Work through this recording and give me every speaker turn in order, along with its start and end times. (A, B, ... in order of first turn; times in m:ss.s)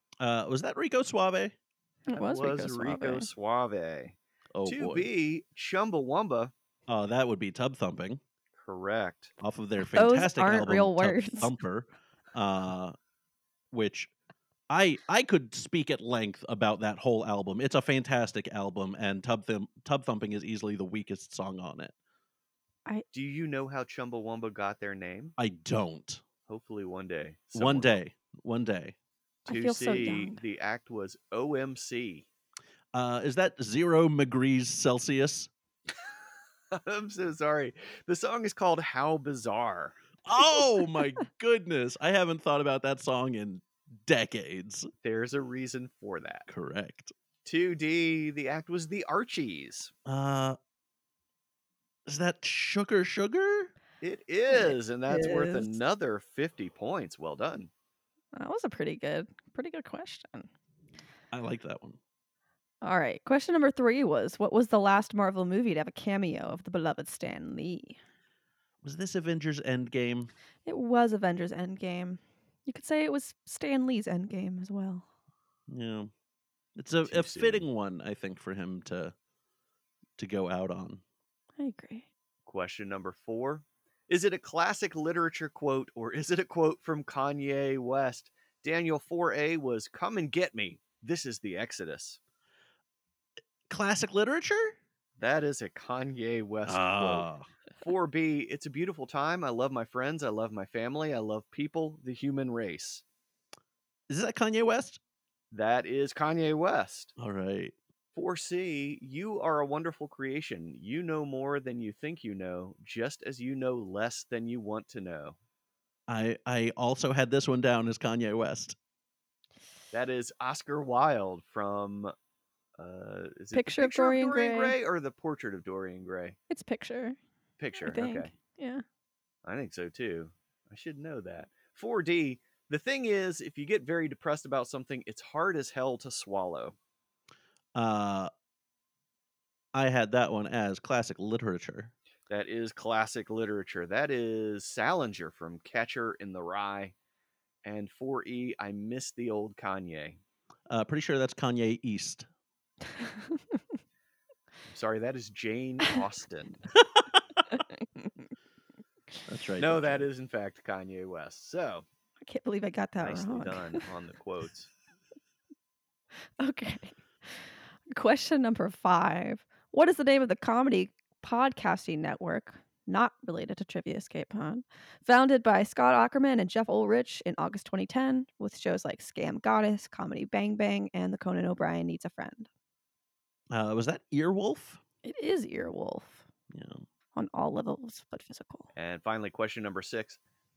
0:00.2-0:01.6 A
0:02.1-0:03.3 B
0:02.2-0:06.5 C
0:04.6-0:05.1 A
0:06.9-0:08.2 A
0:08.6-0:09.3 C
0:09.4-0:12.9 A
0:09.9-0:11.5 B
0:13.7-0:14.1 A
0:14.7-0:21.9 A
0:23.1-0:25.4 C
0:25.4-0:26.2 A
0:26.5-0:28.0 C
0:27.6-0:29.0 A
0:29.5-0:30.4 B
0:29.5-0:32.3 C
0:32.9-0:35.5 A
0:36.7-0:40.0 C
0:40.2-0:44.9 A
0:45.0-0:46.5 C
0:46.5-0:47.1 A
0:47.4-0:49.9 C
0:50.1-0:50.6 A
0:52.1-0:53.7 A
0:54.0-0:57.7 C
0:54.5-0:55.8 B
0:58.3-1:00.5 B
1:01.3-1:02.0 A
1:02.8-1:08.0 B
1:08.8-1:10.3 A
1:10.6-1:15.1 B
1:15.7-1:16.1 A
1:16.8-1:19.1 A
1:17.0-1:17.7 C
1:20.2-1:21.0 A
1:21.6-1:22.1 B
1:22.5-1:32.2 C
1:33.7-1:34.8 A
1:35.2-1:43.0 C
1:36.7-1:37.5 A
1:44.1-1:45.0 A
1:45.5-1:47.1 C
1:47.2-1:47.8 A
1:48.2-1:55.4 C
1:56.1-1:58.8 A
1:59.9-2:02.1 C
2:02.8-2:06.4 C
2:03.5-2:04.8 B
2:06.5-2:07.2 B
2:07.6-2:08.3 C
2:07.8-2:08.8 B
2:09.4-2:16.8 C
2:17.8-2:18.3 A
2:19.8-2:21.9 A
2:22.3-2:27.0 C
2:27.6-2:30.2 C
2:30.7-2:32.3 A
2:33.0-2:33.6 B
2:34.7-2:36.6 C
2:37.0-2:37.4 A
2:37.5-2:38.3 B
2:39.3-2:40.1 A
2:39.6-2:41.9 C
2:42.2-2:43.8 B
2:43.0-2:44.7 C
2:46.4-3:02.5 B
3:03.5-3:04.8 A
3:05.0-3:06.3 B
3:06.5-3:06.8 A
3:07.1-3:08.7 B
3:08.8-3:10.2 C